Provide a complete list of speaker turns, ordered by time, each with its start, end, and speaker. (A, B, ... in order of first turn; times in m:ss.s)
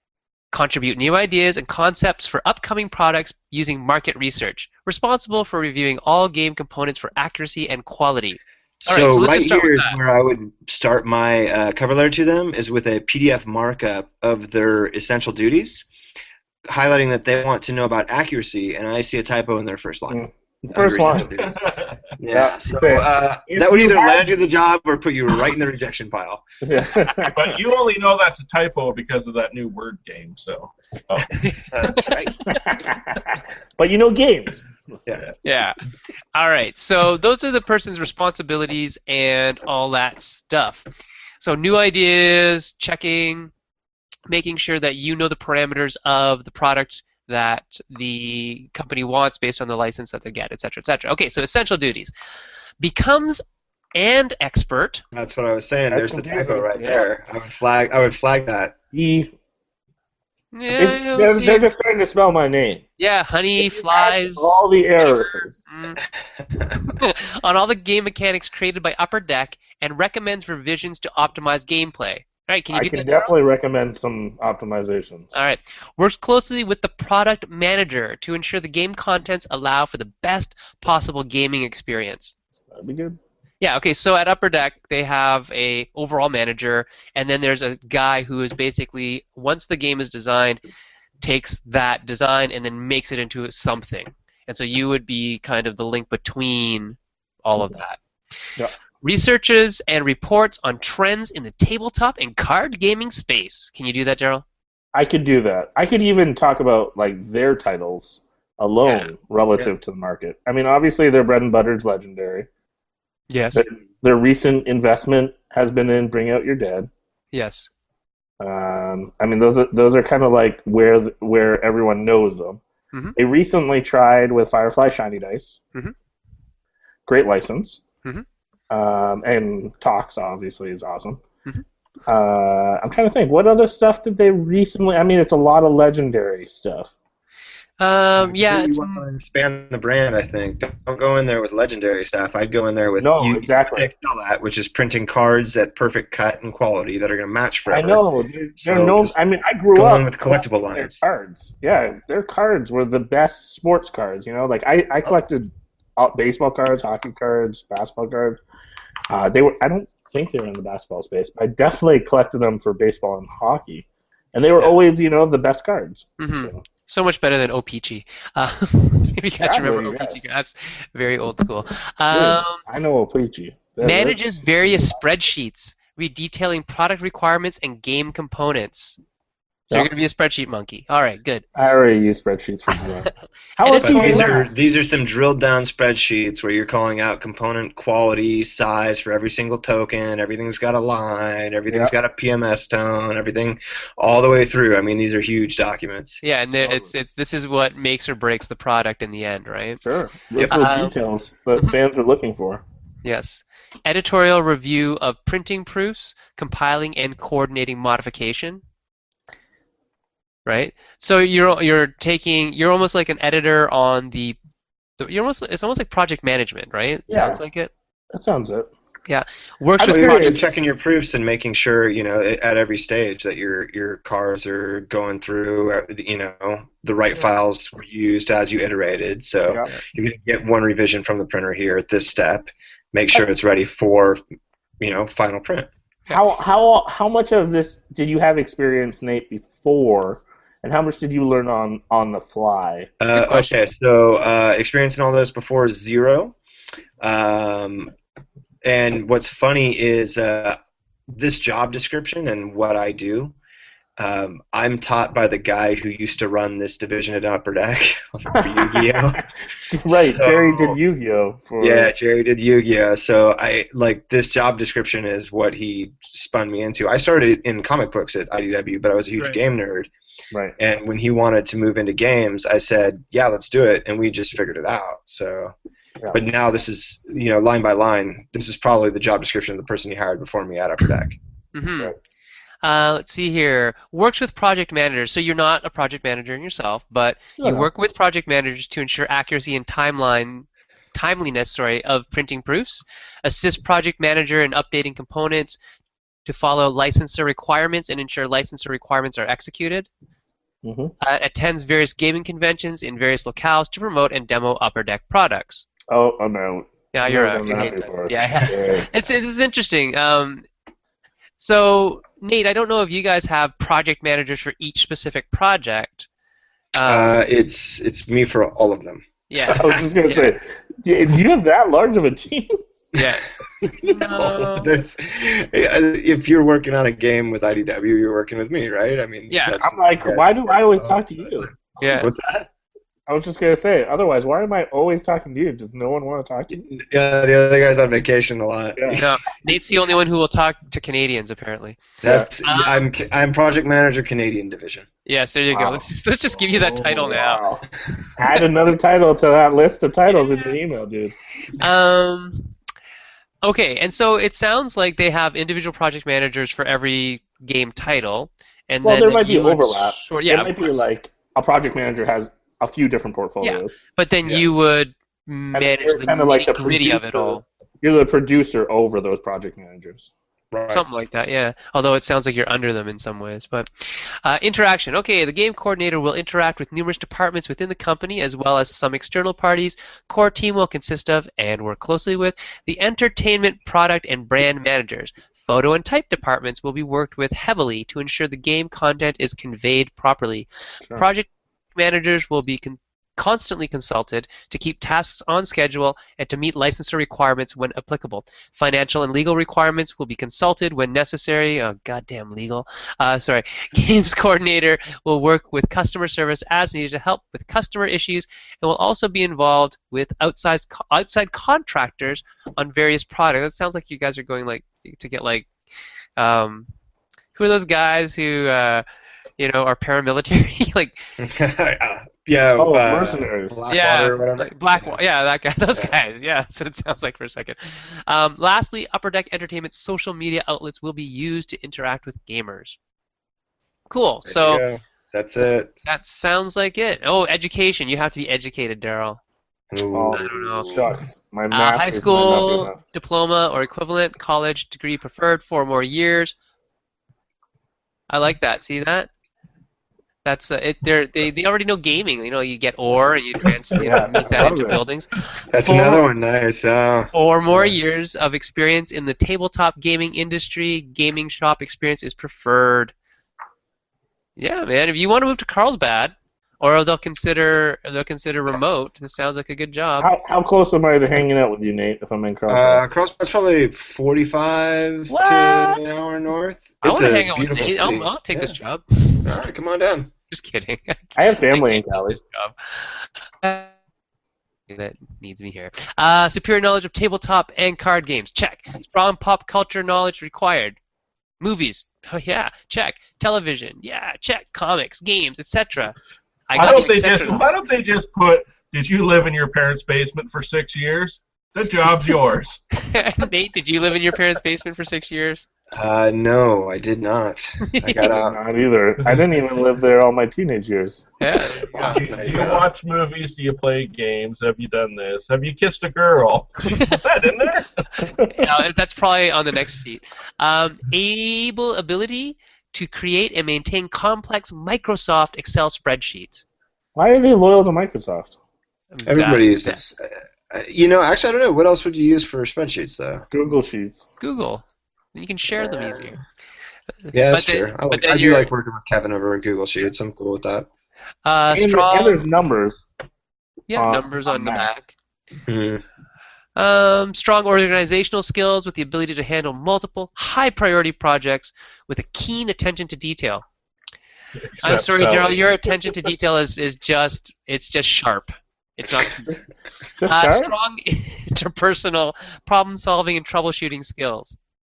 0:00.5-0:10.0 A
0:08.8-0:15.9 B
0:16.7-0:21.6 B
0:20.1-0:21.3 C
0:21.3-0:22.0 D
0:22.2-0:26.4 B
0:22.3-0:24.3 C
0:26.6-0:27.5 C
0:27.3-0:31.4 D
0:31.4-0:32.6 A
0:31.7-0:32.2 B
0:32.2-0:35.0 C
0:35.4-0:35.8 A
0:36.3-0:40.9 A
0:41.4-0:43.5 A
0:44.3-0:52.1 A
0:52.8-0:53.4 A
0:54.0-0:55.0 A
0:55.1-0:58.8 B
0:55.9-0:57.1 C
0:58.9-0:59.3 C
1:00.5-1:01.7 A
1:00.8-1:02.8 C
1:03.0-1:06.0 A
1:03.6-1:05.5 C
1:06.8-1:13.3 A
1:12.7-1:15.4 C
1:15.3-1:22.3 A
1:22.7-1:23.2 C
1:23.6-1:30.6 A
1:31.2-1:38.0 A
1:39.0-1:44.4 A
1:44.9-1:52.5 C
1:48.8-1:49.7 A
1:53.3-1:53.6 A
1:53.6-1:56.9 C
1:57.3-1:57.7 A
1:58.4-2:02.6 C
2:03.2-2:05.6 C
2:07.1-2:07.8 C
2:08.7-2:11.2 C
2:12.1-2:16.9 C
2:17.8-2:19.0 A
2:18.2-2:28.0 B
2:23.0-2:23.9 C
2:27.7-2:38.4 C
2:28.6-2:29.2 B
2:29.7-2:31.0 B
2:39.1-2:46.6 C
2:46.2-2:52.6 A
2:49.4-2:50.3 C
2:52.1-2:55.0 C
2:53.8-2:59.0 A
2:59.7-3:01.5 A
3:01.6-3:04.5 C
3:03.6-3:04.4 A
3:03.8-3:16.2 B
3:16.2-3:19.8 A
3:16.6-3:16.9 C
3:19.8-3:22.6 C
3:20.5-3:21.0 A
3:23.0-3:28.6 A
3:30.5-3:34.4 A
3:35.0-3:37.7 A
3:37.1-3:37.4 C
3:38.1-3:38.7 C
3:39.1-3:40.4 A
3:39.8-3:40.4 C
3:39.9-3:54.2 B
3:54.8-3:55.7 B
3:56.1-4:02.9 C
4:03.0-4:06.4 B
4:03.1-4:03.5 A
4:07.0-4:07.9 B
4:08.6-4:10.6 B
4:11.1-4:13.4 B
4:14.0-4:19.3 B
4:18.4-4:21.9 C
4:19.9-4:20.8 B
4:21.6-4:29.9 B
4:30.6-4:35.5 B
4:36.1-4:41.2 B
4:41.5-4:41.9 A
4:42.6-4:55.6 A
4:47.4-4:47.7 C
4:56.2-4:59.9 A
5:00.6-5:00.9 C
5:01.0-5:05.7 A
5:05.9-5:08.9 C
5:06.9-5:10.5 A
5:11.4-5:16.1 A
5:16.7-5:17.2 A
5:16.8-5:19.8 B
5:19.3-5:20.3 A
5:19.5-5:22.5 C
5:23.0-5:23.2 A
5:23.6-5:32.5 B
5:23.8-5:24.8 A
5:29.3-5:29.6 A
5:29.6-5:31.5 C
5:31.8-5:32.1 A
5:33.1-5:36.6 C
5:36.5-5:39.1 B
5:38.8-5:39.0 C
5:39.0-5:41.9 A
5:42.0-5:44.9 B
5:42.0-5:42.3 C
5:42.4-5:42.8 A
5:45.1-5:47.4 A
5:45.5-5:45.9 C
5:46.3-5:47.0 D
5:47.0-5:47.6 C
5:48.2-5:51.1 C
5:50.1-5:50.6 A
5:51.6-5:52.6 A
5:53.4-6:00.8 A
5:58.8-6:03.8 C
6:03.4-6:07.4 A
6:05.5-6:10.1 C
6:10.5-6:10.8 B
6:10.7-6:55.5 A
6:56.2-6:56.7 A
6:57.4-6:58.8 A
6:59.4-7:01.1 A
7:01.2-7:05.0 B
7:02.6-7:03.6 C
7:03.7-7:12.8 A
7:13.9-7:14.6 A
7:14.3-7:15.8 B
7:15.8-7:19.2 A
7:19.7-7:20.9 B
7:19.9-7:22.8 C
7:20.1-7:20.8 A
7:21.5-7:26.4 A
7:28.1-7:29.1 A
7:30.2-7:36.0 A
7:33.8-7:34.8 C
7:35.5-7:37.8 B
7:37.1-7:42.9 A
7:44.4-7:50.1 A
7:50.0-7:52.8 C
7:52.5-7:58.6 B
7:55.1-7:55.8 A
7:56.8-7:59.4 A
7:59.2-8:00.1 B
8:00.3-8:03.7 A
8:01.2-8:02.2 C
8:04.7-8:10.8 A
8:11.4-8:16.0 A
8:16.5-8:17.4 A
8:16.6-8:22.6 D
8:22.8-8:25.4 A
8:25.7-8:28.4 B
8:27.6-8:28.1 A
8:28.0-8:31.1 C
8:31.2-8:32.0 A
8:31.7-8:32.7 B
8:31.7-8:37.8 D
8:36.6-8:37.0 A
8:38.0-8:38.3 C
8:38.2-8:46.4 A
8:47.0-8:48.4 C
8:48.9-8:49.8 A
8:49.1-8:53.3 B
8:53.3-8:54.0 C
8:54.2-8:56.2 A
8:55.6-8:56.0 B
8:57.1-8:58.5 A
8:57.1-9:00.7 B
9:01.2-9:02.2 A
9:01.5-9:02.9 C
9:03.7-9:04.9 A
9:03.8-9:04.7 C
9:05.5-9:05.8 B
9:06.6-9:13.4 A
9:14.4-9:15.7 D
9:14.6-9:19.3 A
9:20.0-9:20.5 C
9:20.1-9:24.4 A